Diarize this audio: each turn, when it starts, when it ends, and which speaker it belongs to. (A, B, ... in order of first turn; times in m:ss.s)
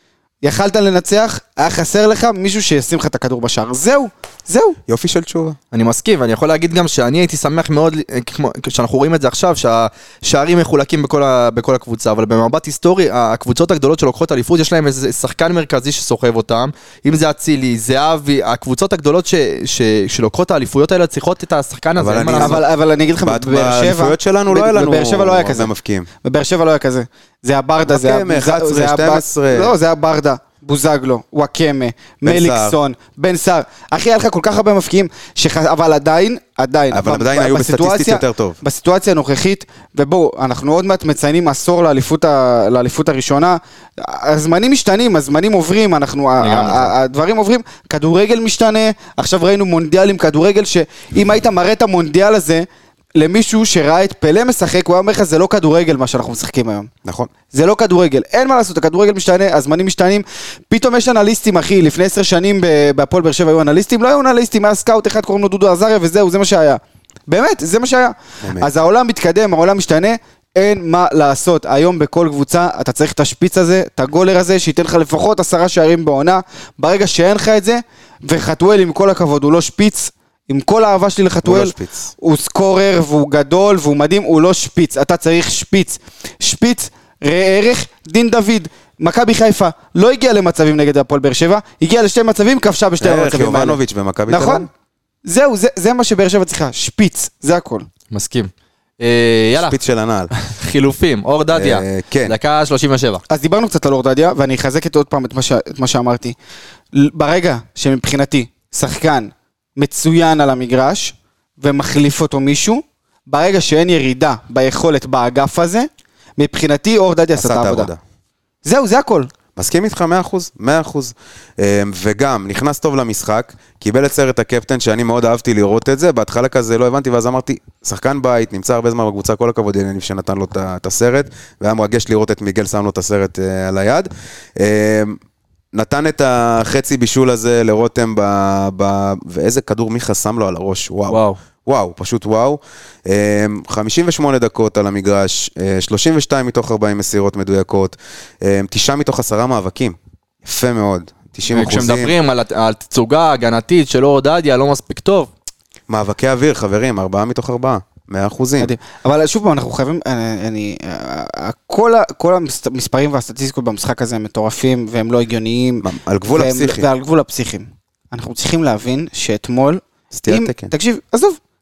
0:00.4-0:04.8 A
0:04.9-0:05.6 B
0:05.7-0:22.6 C
0:22.0-0:22.6 B
0:22.4-0:25.7 A
0:23.2-0:26.1 B
0:26.2-0:56.9 A
0:27.9-0:29.8 B
0:32.2-0:32.8 B
0:36.9-0:38.6 B
0:46.4-0:46.9 C
0:57.0-0:57.3 B
0:57.5-1:34.7 A
1:08.4-1:08.7 B
1:21.4-1:22.1 B
1:33.0-1:34.7 B
1:35.2-1:37.9 A
1:38.1-1:39.8 C
1:39.6-1:40.3 B
1:40.3-1:43.2 C
1:41.5-1:42.3 B
1:43.3-1:46.4 A
1:46.9-1:57.9 A
1:57.4-1:58.0 B
1:58.6-1:59.3 A
1:59.6-2:15.2 B
2:15.7-2:32.1 B
2:21.1-2:21.4 C
2:31.5-2:35.3 C
2:35.9-2:38.7 B
2:38.6-2:51.4 A
2:45.8-2:46.9 B
2:50.1-2:50.7 B